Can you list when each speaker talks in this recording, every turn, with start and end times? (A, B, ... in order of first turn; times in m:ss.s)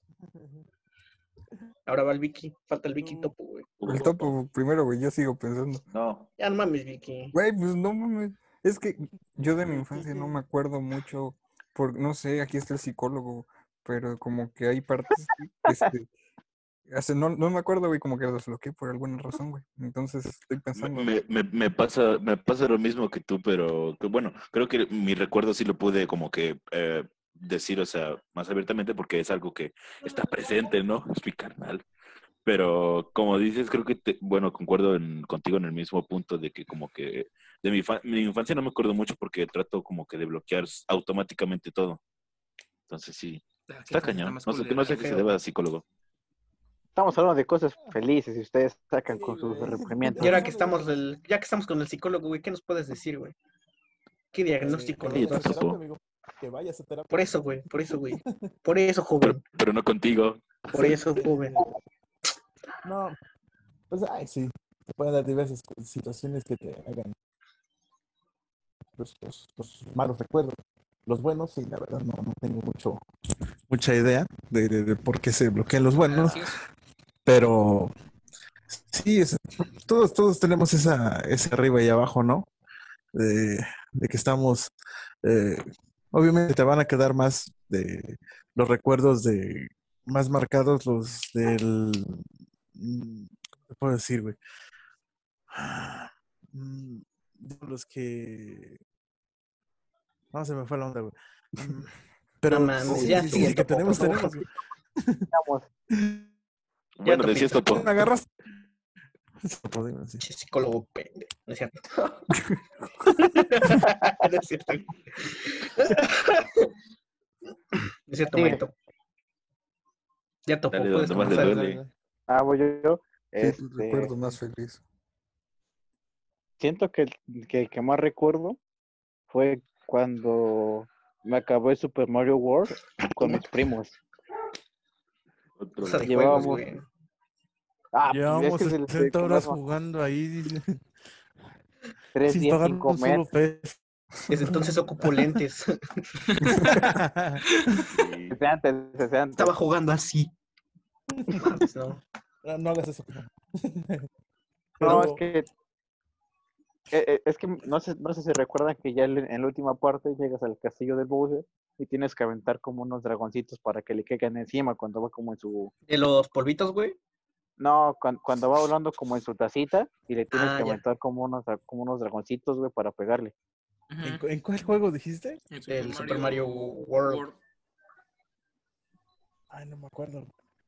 0:00.2-0:00.7 A
0:01.9-0:03.7 B
0:03.0-0:03.3 A
0:03.8-0:04.3 C
0:03.8-0:05.8 D
0:05.9-0:06.3 C
0:06.4-0:07.3 B
0:07.3-0:16.1 D
0:09.3-0:10.4 A
0:16.9-0:21.1 D
0:20.7-0:31.8 C
0:32.4-0:42.0 C
0:42.9-0:45.8 C
0:43.7-0:45.2 E
0:45.0-0:45.3 B
0:47.0-0:50.4 F
0:49.1-0:50.9 A
0:50.2-0:53.3 B
0:54.3-0:55.5 B
0:54.6-0:57.4 A
0:55.1-0:55.8 C
0:57.1-0:59.4 B
0:58.1-0:58.5 A
0:59.2-1:00.6 C
1:00.7-1:01.6 B
1:00.7-1:01.7 A
1:02.8-1:03.2 A
1:03.9-1:07.1 A
1:09.0-1:13.0 A
1:13.7-1:16.6 A
1:16.0-1:16.6 E
1:17.2-1:17.9 A
1:18.7-1:22.5 A
1:23.1-1:24.7 A
1:25.2-1:34.4 A
1:35.5-1:38.8 A
1:40.3-1:41.9 A
1:42.4-1:45.3 A
1:42.5-1:44.3 B
1:42.9-1:43.5 D
1:45.3-1:45.7 F
1:45.9-1:46.2 A
1:47.0-1:47.9 C
1:47.0-1:47.6 B
1:47.6-1:48.3 A
1:49.4-1:50.2 A
1:50.2-1:52.3 B
1:53.1-1:56.7 B
1:57.7-1:58.7 B
1:58.3-1:58.6 F
2:00.5-2:01.6 B
2:00.7-2:01.8 C
2:01.0-2:01.9 A
2:02.3-2:04.2 F
2:03.4-2:04.8 D
2:06.6-2:08.6 F
2:09.3-2:14.0 F
2:15.6-2:16.6 C
2:15.8-2:16.8 B
2:16.0-2:16.6 F
2:17.9-2:19.6 F
2:18.1-2:20.8 A
2:22.1-2:23.2 F
2:22.2-2:23.8 A
2:24.3-2:26.6 B
2:24.5-2:25.4 A
2:26.3-2:26.9 E
2:26.6-2:27.8 A
2:27.5-2:27.9 E
2:27.9-2:28.4 C
2:28.3-2:29.5 F
2:29.4-2:30.3 B
2:31.1-2:31.5 A
2:31.3-2:32.0 B
2:32.4-2:34.1 A
2:34.8-2:35.2 A
2:34.8-2:35.5 F
2:36.9-2:45.7 F
2:45.9-2:47.0 B
2:47.6-2:53.3 F
2:50.3-2:50.8 B
2:53.9-2:54.2 E
2:54.0-2:55.4 A
2:55.5-2:57.4 E
2:55.7-2:57.2 B
2:59.5-3:00.3 A